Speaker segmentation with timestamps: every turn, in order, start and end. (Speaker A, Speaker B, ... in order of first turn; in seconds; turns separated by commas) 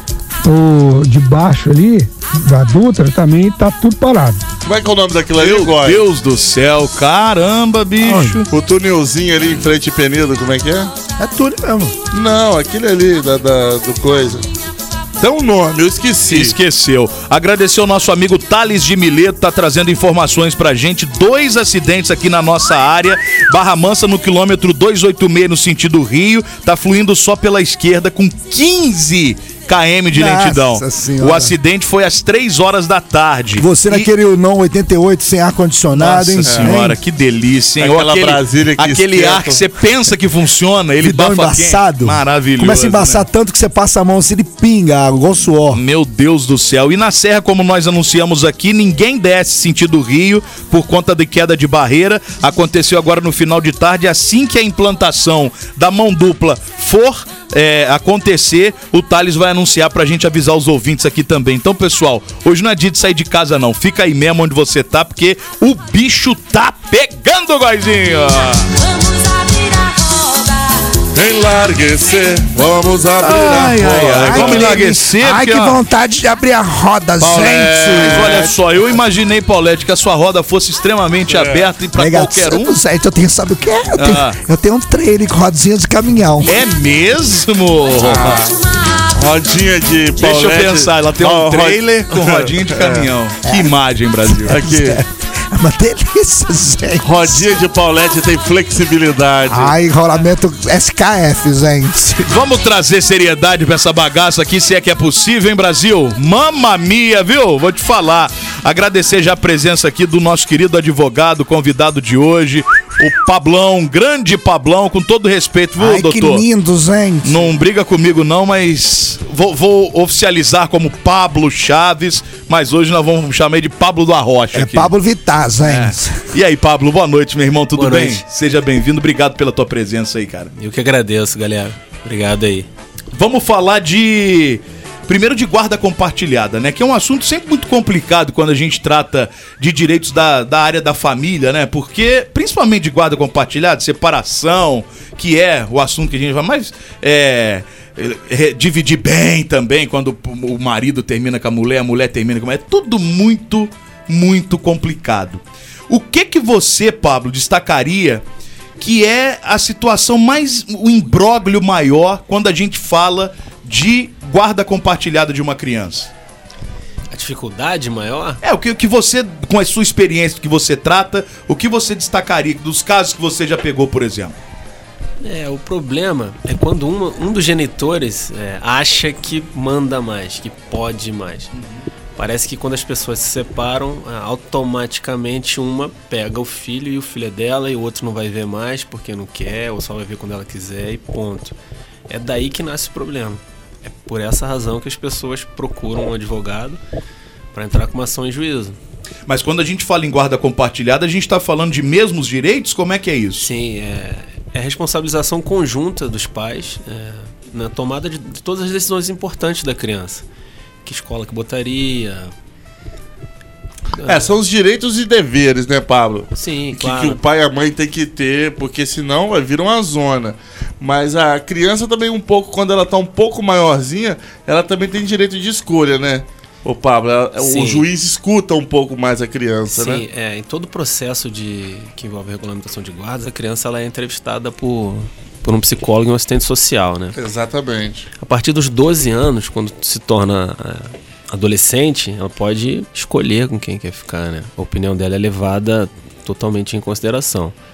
Speaker A: 0.4-4.4, Speaker B: 4.6-6.0, Speaker C: 5.3-8.5, Speaker D: 8.0-8.4, Speaker B: 8.5-10.9, Speaker D: 11.2-11.9, Speaker B: 12.1-14.4, Speaker B: 15.2-16.6, Speaker C: 16.3-34.1, Speaker D: 30.1-31.5, Speaker D: 33.6-37.0, Speaker C: 35.9-43.2, Speaker B: 36.4-36.8, Speaker B: 37.8-39.6, Speaker D: 41.0-45.8, Speaker C: 45.7-68.7, Speaker B: 71.1-74.8, Speaker D: 73.2-78.4, Speaker C: 73.2-75.8, Speaker B: 77.2-78.5, Speaker C: 77.9-82.8, Speaker B: 81.3-81.7, Speaker D: 81.9-86.5, Speaker C: 84.0-84.4, Speaker C: 86.4-88.4, Speaker B: 88.0-88.5, Speaker B: 89.1-93.1, Speaker C: 90.2-94.6, Speaker D: 93.4-97.4, Speaker B: 94.5-95.0, Speaker B: 97.0-99.7, Speaker D: 99.5-102.3, Speaker C: 102.3-116.4, Speaker D: 115.8-117.5, Speaker C: 117.2-124.9, Speaker D: 124.5-126.2, Speaker C: 125.6-130.5, Speaker E: 127.7-128.2, Speaker E: 130.6-132.7, Speaker C: 133.1-158.2, Speaker C: 158.8-166.1, Speaker E: 167.1-168.4, Speaker C: 168.4-174.3, Speaker E: 175.2-181.5, Speaker E: 182.2-191.5, Speaker E: 192.1-196.8, Speaker E: 197.5-198.8, Speaker C: 199.3-203.5, Speaker E: 203.4-210.2, Speaker E: 210.8-212.3, Speaker E: 214.0-214.3, Speaker B: 214.0-230.1, Speaker E: 216.3-217.2, Speaker E: 227.4-227.9, Speaker E: 229.7-237.2, Speaker B: 237.1-238.1, Speaker E: 238.2-247.5